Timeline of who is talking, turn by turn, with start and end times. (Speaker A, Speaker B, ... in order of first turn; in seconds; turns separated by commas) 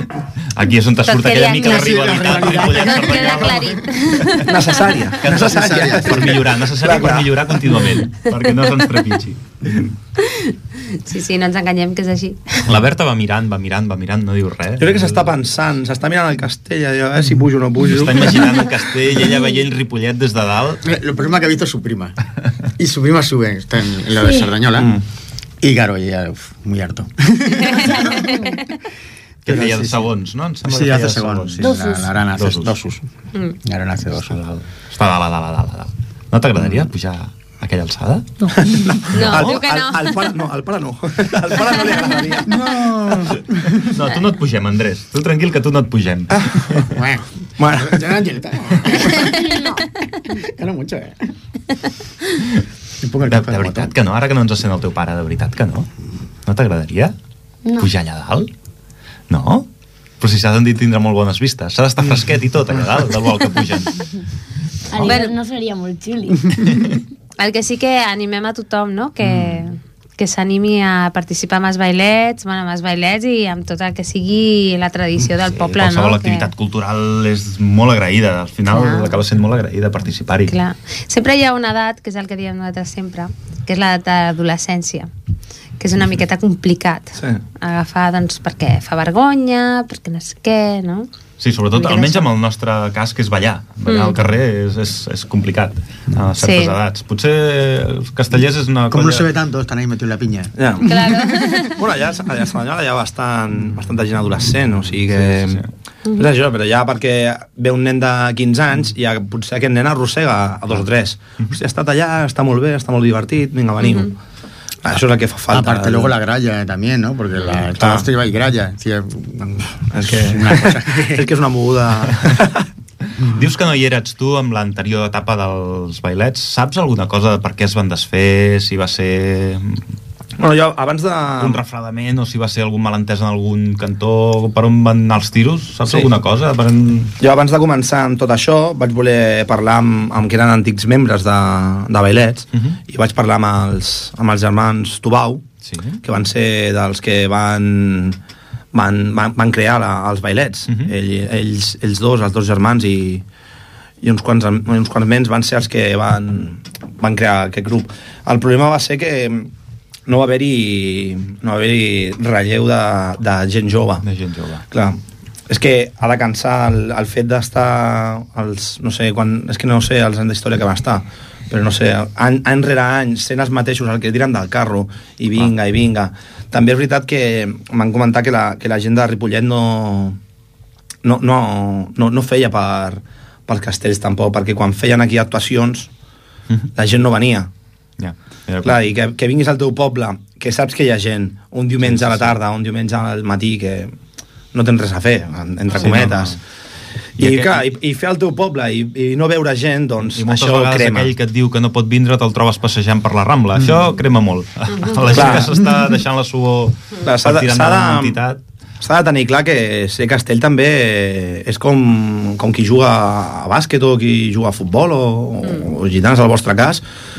Speaker A: 0.5-4.5, Speaker B: 1.0-4.5, Speaker C: 1.6-3.8, Speaker D: 4.3-7.9, Speaker A: 5.1-9.9, Speaker C: 5.2-6.2, Speaker B: 10.2-12.8, Speaker A: 12.7-15.3, Speaker D: 14.8-18.7, Speaker A: 17.8-20.8, Speaker C: 20.8-22.1, Speaker C: 22.8-24.9, Speaker C: 25.6-28.6, Speaker B: 27.6-28.6, Speaker A: 29.4-31.8, Speaker C: 29.4-30.1, Speaker C: 30.6-33.0, Speaker E: 31.6-32.0, Speaker A: 32.3-32.8, Speaker C: 33.6-34.4, Speaker A: 34.1-39.6, Speaker D: 38.5-42.8, Speaker B: 39.1-40.2, Speaker C: 42.5-44.0, Speaker A: 43.7-47.0, Speaker D: 46.4-46.7, Speaker C: 46.9-49.6, Speaker D: 47.6-48.0, Speaker E: 49.2-49.8, Speaker B: 49.3-49.6, Speaker C: 50.2-51.3, Speaker C: 53.0-53.9, Speaker A: 53.3-55.9, Speaker A: 56.4-57.1, Speaker A: 57.8-58.5, Speaker A: 59.3-59.7, Speaker A: 60.2-64.0, Speaker E: 64.9-66.9, Speaker B: 65.0-65.3, Speaker B: 67.4-76.5, Speaker A: 75.4-80.5, Speaker B: 78.7-79.2, Speaker B: 80.5-85.1, Speaker B: 85.8-91.1, Speaker A: 91.4-99.3, Speaker B: 91.7-92.3, Speaker B: 93.8-94.2, Speaker B: 96.4-96.8, Speaker C: 98.9-101.6, Speaker D: 100.5-100.9, Speaker B: 100.8-101.8, Speaker D: 101.5-105.6, Speaker A: 105.1-105.7, Speaker D: 106.1-114.2, Speaker B: 113.8-114.1, Speaker D: 114.8-116.1, Speaker C: 115.5-121.3, Speaker D: 117.7-118.1, Speaker D: 119.9-122.7, Speaker A: 123.1-129.9, Speaker D: 130.4-131.6, Speaker A: 131.4-137.1, Speaker D: 137.2-145.4, Speaker A: 145.6-146.0, Speaker D: 146.0-148.2, Speaker D: 148.7-153.2, Speaker D: 154.0-159.5, Speaker D: 160.1-164.0, Speaker A: 164.0-164.6, Speaker D: 164.7-180.2, Speaker D: 181.0-185.9, Speaker D: 186.7-187.5, Speaker A: 188.0-188.8, Speaker D: 188.6-193.9, Speaker A: 191.8-192.3, Speaker D: 194.5-196.4, Speaker A: 195.7-196.4, Speaker D: 197.2-201.1, Speaker A: 197.2-197.6, Speaker A: 200.1-208.4, Speaker B: 204.7-205.3, Speaker D: 205.1-205.5, Speaker D: 207.0-208.2, Speaker D: 208.8-216.8